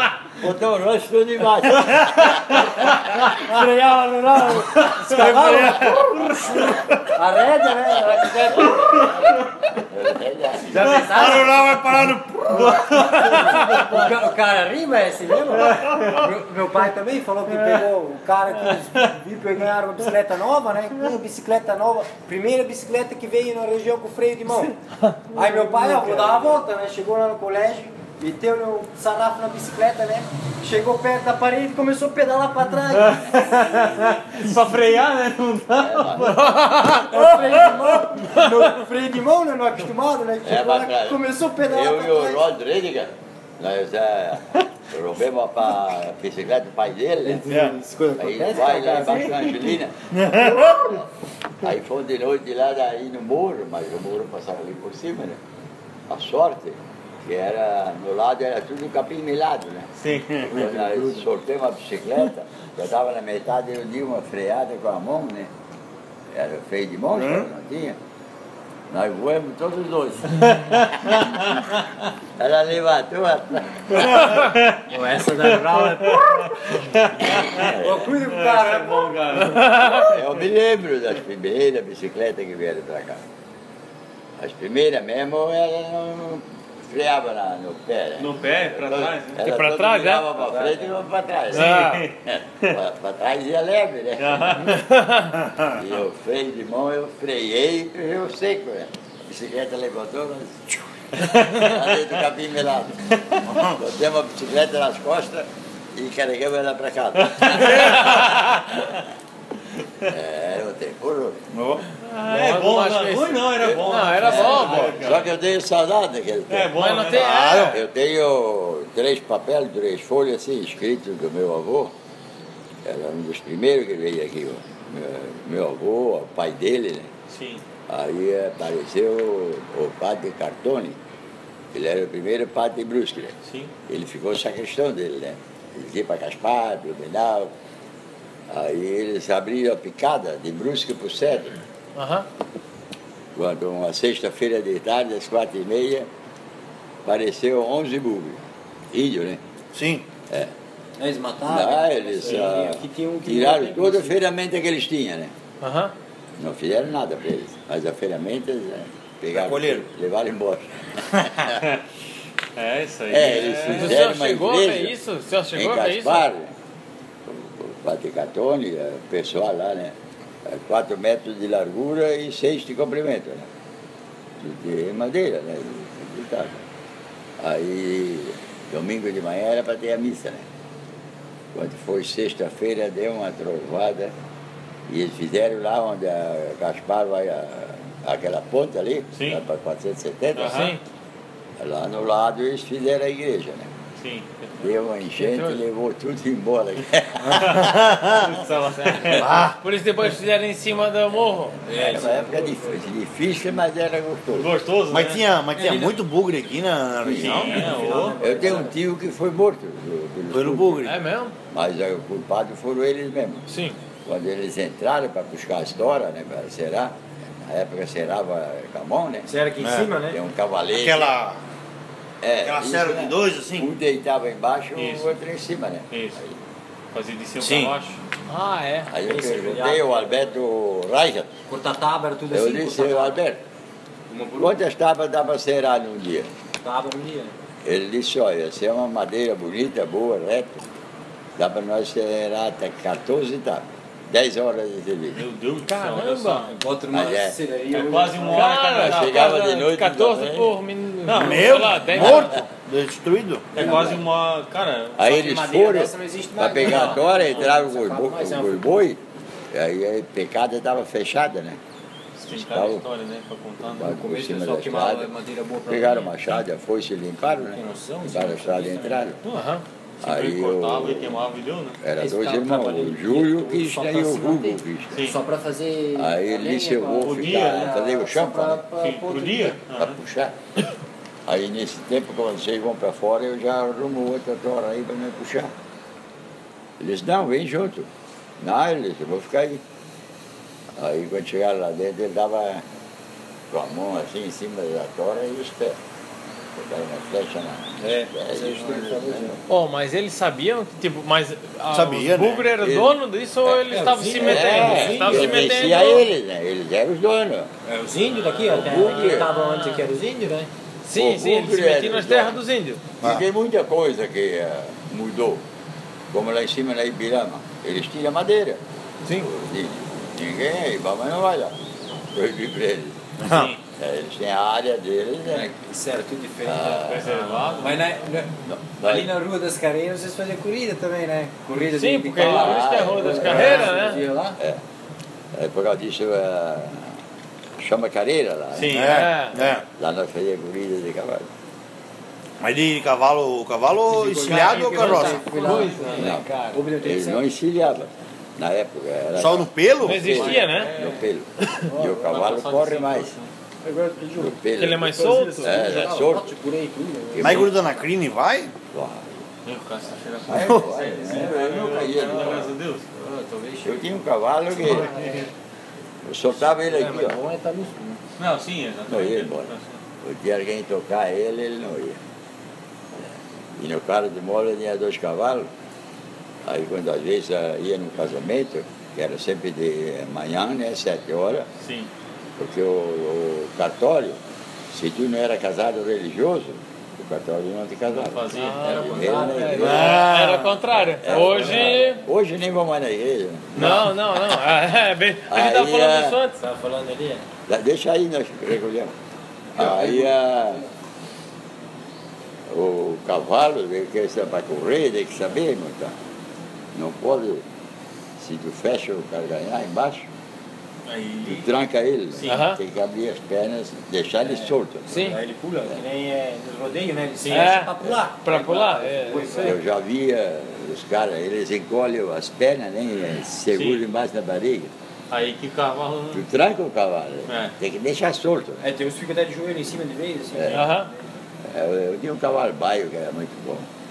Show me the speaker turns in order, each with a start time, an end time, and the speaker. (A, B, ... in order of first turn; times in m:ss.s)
0:00.4-0:02.4 A
0:02.9-0:09.1 B
0:04.9-0:06.0 C
0:05.2-0:06.6 D
0:08.6-0:09.3 A
0:09.9-0:11.0 A
0:10.6-0:11.8 B
0:10.9-0:11.2 C
0:11.1-0:13.6 D
0:12.5-0:14.0 C
0:13.0-0:24.8 B
0:15.6-0:16.3 C
0:25.3-0:34.0 B
0:32.9-0:37.1 C
0:35.8-0:36.4 A
0:36.2-0:37.3 E
0:36.9-0:42.4 B
0:38.2-0:38.7 E
0:40.4-0:47.5 A
0:47.2-0:49.7 B
0:47.5-0:47.7 D
0:48.2-0:50.0 A
0:50.2-0:50.9 D
0:50.3-0:50.8 B
0:50.8-0:51.1 A
0:51.6-0:55.4 A
0:56.1-1:05.5 A
1:00.0-1:00.4 C
1:00.3-1:01.2 D
1:06.3-1:08.0 A
1:07.2-1:07.5 D
1:08.9-1:11.2 A
1:10.5-1:11.8 C
1:12.4-1:14.4 A
1:14.1-1:20.3 C
1:14.9-1:19.7 B
1:17.4-1:18.1 A
1:19.5-1:20.1 E
1:19.9-1:23.2 A
1:24.4-1:34.8 A
1:28.2-1:29.4 C
1:29.4-1:30.6 E
1:31.5-1:32.1 E
1:31.5-1:32.8 C
1:34.2-1:34.9 C
1:34.7-1:35.3 E
1:35.7-1:43.0 A
1:41.2-1:41.8 C
1:43.6-1:48.6 A
1:47.2-1:48.9 C
1:47.9-1:48.3 E
1:50.1-1:51.5 A
1:51.5-1:51.9 D
1:52.0-1:55.3 C
1:52.2-1:55.0 E
1:53.7-1:56.7 A
1:54.3-1:54.9 B
1:56.5-1:57.5 C
1:56.7-1:57.8 E
1:57.2-1:57.8 D
1:57.7-2:01.9 A
2:02.8-2:07.1 A
2:07.3-2:07.6 C
2:07.9-2:11.0 A
2:11.7-2:13.4 A
2:13.4-2:13.7 C
2:13.9-2:17.5 A
2:18.5-2:21.6 A
2:22.0-2:22.3 E
2:23.4-2:26.1 A
2:27.0-2:29.4 A
2:29.7-2:30.0 D
2:31.0-2:34.2 B
2:31.5-2:35.3 A
2:35.6-2:35.9 E
2:36.4-2:41.0 A
2:39.3-2:39.8 D
2:41.3-2:41.6 D
2:41.6-2:41.8 C
2:42.6-2:44.0 C
2:43.1-2:45.0 A
2:43.7-2:46.2 E
2:45.6-2:46.5 A
2:47.3-2:53.5 A
2:54.4-2:56.7 A
2:57.4-3:00.5 A
3:01.5-3:04.1 A
3:04.9-3:10.7 A
3:09.2-3:09.4 C
3:10.4-3:10.8 C
3:10.5-3:10.8 E
3:11.6-3:13.7 A
3:14.0-3:14.6 C
3:14.6-3:17.8 A
3:15.2-3:15.6 E
3:17.2-3:19.4 C
3:17.4-3:18.3 D
3:18.8-3:21.6 E
3:19.1-3:19.6 D
3:21.6-3:24.5 A
3:21.7-3:22.8 B
3:24.3-3:25.2 C
3:24.9-3:27.7 D
3:25.5-3:26.0 B
3:27.0-3:30.8 A
3:27.1-3:28.2 C
3:27.4-3:28.8 B
3:30.3-3:31.0 D
3:30.8-3:31.3 E
3:31.5-3:33.4 A
3:33.5-3:33.8 E
3:34.0-3:39.3 A
3:39.3-3:40.2 B
3:39.6-3:39.9 D
3:40.1-3:41.1 A
3:40.7-3:41.4 D
3:42.2-3:46.4 A
3:42.4-3:43.7 D
3:44.8-3:45.1 C
3:45.9-3:46.2 C
3:46.9-3:48.0 C
3:47.4-3:47.7 D
3:48.3-3:48.9 E
3:48.8-3:51.3 A
3:49.0-3:50.3 B
3:51.5-3:53.2 B
3:52.3-3:53.4 A
3:54.1-3:54.6 B
3:54.4-3:56.3 A
3:56.6-3:57.4 B
3:57.6-4:00.7 A
4:01.4-4:05.2 A
4:05.1-4:06.6 C
4:05.7-4:06.5 E
4:06.6-4:08.7 B
4:06.9-4:07.4 A
4:07.7-4:09.3 C
4:08.3-4:12.4 E
4:08.7-4:10.6 A
4:11.0-4:11.6 C
4:11.2-4:13.5 D
4:13.5-4:15.2 C
4:13.5-4:14.0 B
4:15.0-4:19.0 A
4:15.0-4:18.8 B
4:16.6-4:17.5 C
4:19.5-4:21.6 A
4:22.2-4:23.9 C
4:22.3-4:22.8 A
4:23.6-4:25.1 A
4:23.8-4:26.1 B
4:25.7-4:29.2 A
4:27.3-4:29.2 B
4:29.3-4:29.6 E
4:30.0-4:31.3 A
4:30.0-4:31.8 C
4:31.8-4:35.0 A
4:32.0-4:39.6 B
4:36.0-4:38.6 A
4:37.0-4:37.8 C
4:38.8-4:40.0 C
4:39.8-4:40.4 A
4:41.3-4:45.5 A
4:46.8-4:49.6 A
4:50.8-4:52.6 A
4:53.5-4:55.8 A
4:56.6-4:59.4 A
4:57.8-4:59.4 B
4:59.5-5:06.1 E
5:01.7-5:02.4 D
5:02.6-5:07.5 A
5:03.7-5:05.6 B
5:07.7-5:10.5 B
5:08.4-5:09.3 A
5:09.0-5:09.9 E
5:10.8-5:13.0 E
5:10.9-5:12.4 A
5:13.0-5:15.4 A
5:16.1-5:18.6 A
5:19.1-5:21.6 A
5:22.1-5:23.0 A
5:23.2-5:23.5 D
5:23.2-5:23.6 C
5:23.8-5:25.5 A
5:25.3-5:26.9 B
5:26.4-5:27.2 A
5:26.8-5:27.9 C
5:27.6-5:34.4 B
5:28.5-5:29.2 A
5:31.7-5:34.0 E
5:32.2-5:33.7 A
5:35.3-5:37.0 A
5:37.6-5:38.9 A
5:38.5-5:39.1 C
5:38.7-5:39.6 D
5:38.8-5:39.4 E
5:39.8-5:41.3 A
5:42.4-5:45.3 D
5:43.9-5:47.3 B
5:44.2-5:46.0 C
5:45.0-5:46.6 E
5:46.0-5:53.1 A
5:49.2-5:50.3 D
5:49.8-5:50.7 E
5:50.0-5:51.0 C
5:51.6-5:52.2 B
5:52.0-5:53.3 C
5:53.6-5:57.5 B
5:54.2-5:56.3 A
5:54.6-5:55.9 E
5:57.1-5:57.5 A
5:57.2-5:58.5 D
5:58.7-5:59.2 A
5:59.4-6:02.8 C
6:00.3-6:02.5 A
6:00.3-6:00.7 D
6:00.9-6:01.2 B
6:02.9-6:03.8 B
6:03.6-6:04.9 A
6:04.5-6:05.3 B
6:06.0-6:07.2 A
6:06.3-6:08.0 B
6:08.2-6:09.7 C
6:08.9-6:09.5 A
6:10.0-6:12.0 A
6:13.6-6:15.5 A
6:16.4-6:21.5 A
6:21.6-6:21.9 C
6:22.4-6:24.2 A
6:24.7-6:30.1 A
6:27.9-6:29.3 C
6:28.3-6:32.0 E
6:28.7-6:29.7 B
6:29.6-6:30.6 D
6:30.7-6:33.8 A
6:31.2-6:32.0 B
6:33.6-6:36.4 E
6:33.6-6:33.9 D
6:35.3-6:36.2 A
6:36.4-6:37.2 B
6:37.5-6:38.9 A
6:39.6-6:40.6 A
6:39.6-6:39.9 B
6:39.7-6:39.9 D
6:42.5-6:46.0 A
6:46.7-6:47.4 A
6:48.2-6:50.1 A
6:50.9-6:51.4 C
6:51.2-6:55.1 A
6:52.2-6:52.4 C
6:52.3-6:52.6 E
6:54.2-6:59.6 B
6:54.9-6:55.2 E
6:57.2-6:57.5 C
6:57.3-6:59.6 E
6:59.4-7:04.7 A
7:03.5-7:03.8 C
7:05.1-7:06.2 C
7:06.1-7:08.6 A
7:07.3-7:07.5 C
7:08.6-7:11.0 B
7:10.4-7:10.6 A
7:10.5-7:10.9 E
7:11.4-7:13.7 A